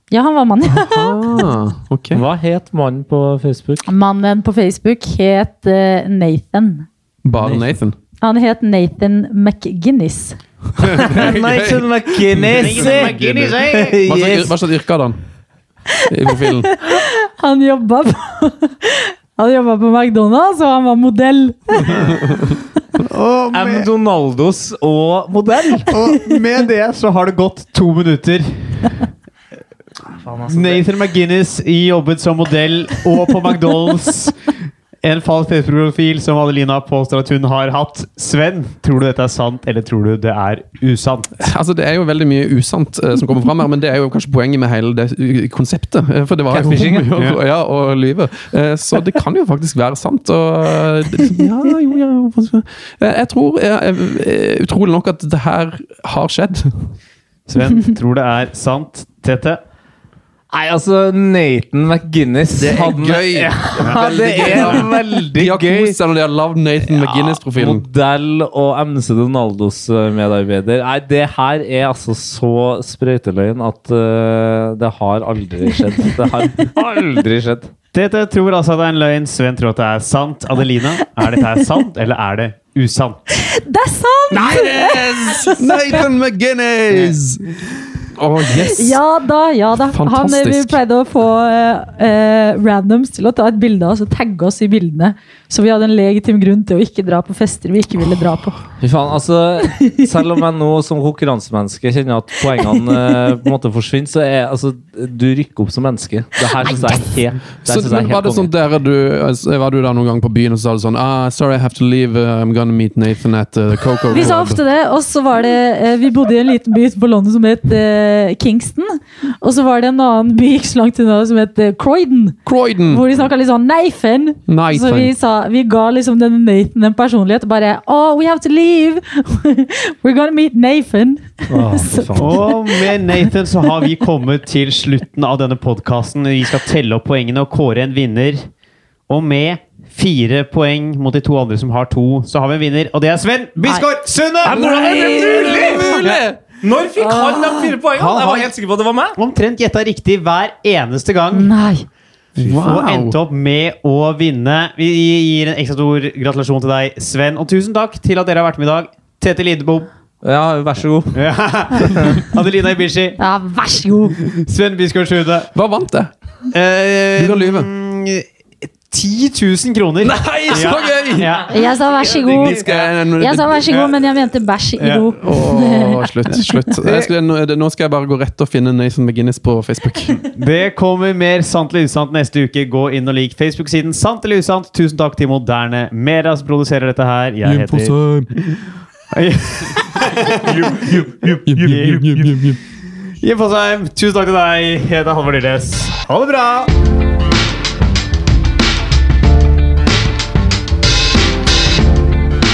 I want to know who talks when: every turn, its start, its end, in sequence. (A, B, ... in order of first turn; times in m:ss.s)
0:00.1-0:01.4 A
0:00.7-0:02.2 B
0:02.1-0:03.9 C
0:03.9-0:06.9 A
0:07.2-0:08.0 B
0:07.4-0:07.7 C
0:08.2-0:10.4 A
0:10.8-0:15.2 B
0:10.8-0:14.5 C
0:11.2-0:11.7 D
0:12.5-0:14.0 D
0:16.1-0:16.7 B
0:16.4-0:22.1 A
0:21.9-0:22.2 D
0:23.0-0:23.9 D
0:23.5-0:25.9 C
0:25.9-0:29.1 D
0:30.2-0:30.8 C
0:30.5-0:41.4 D
0:41.4-0:56.9 B
0:46.5-0:47.2 C
0:57.5-0:59.6 D
1:00.5-1:06.0 C
1:02.6-1:07.9 B
1:03.8-1:04.8 D
1:07.5-1:17.7 C
1:17.9-1:23.4 D
1:23.4-1:26.0 A
1:24.3-1:29.0 B
1:28.5-1:38.6 A
1:29.9-1:30.8 B
1:38.8-1:48.5 C
1:47.6-1:54.6 B
1:54.1-2:12.9 A
2:02.5-2:03.0 B
2:04.5-2:05.1 B
2:11.5-2:12.4 C
2:12.2-2:18.5 D
2:19.1-2:24.7 D
2:24.4-2:29.2 C
2:24.5-2:26.4 B
2:25.9-2:26.2 D
2:27.0-2:28.5 D
2:29.2-2:31.5 D
2:31.3-2:31.9 A
2:32.4-2:33.2 B
2:32.4-2:39.9 D
2:40.2-2:41.3 C
2:41.1-2:43.2 D
2:43.2-2:44.2 A
2:44.3-2:45.5 D
2:45.5-2:46.1 B
2:46.5-2:48.3 D
2:47.2-2:47.7 B
2:48.9-2:52.9 D
2:50.1-2:51.2 C
2:50.4-2:51.4 B
2:51.5-2:52.6 A
2:52.3-2:52.5 C
2:52.4-2:53.6 B
2:53.1-2:56.5 A
2:53.6-2:53.9 D
2:54.8-2:55.1 D
2:55.2-3:00.2 B
2:56.8-2:57.1 D
3:00.3-3:08.0 D
3:07.4-3:08.5 B
3:09.1-3:12.6 D
3:11.5-3:12.6 B
3:13.2-3:16.7 D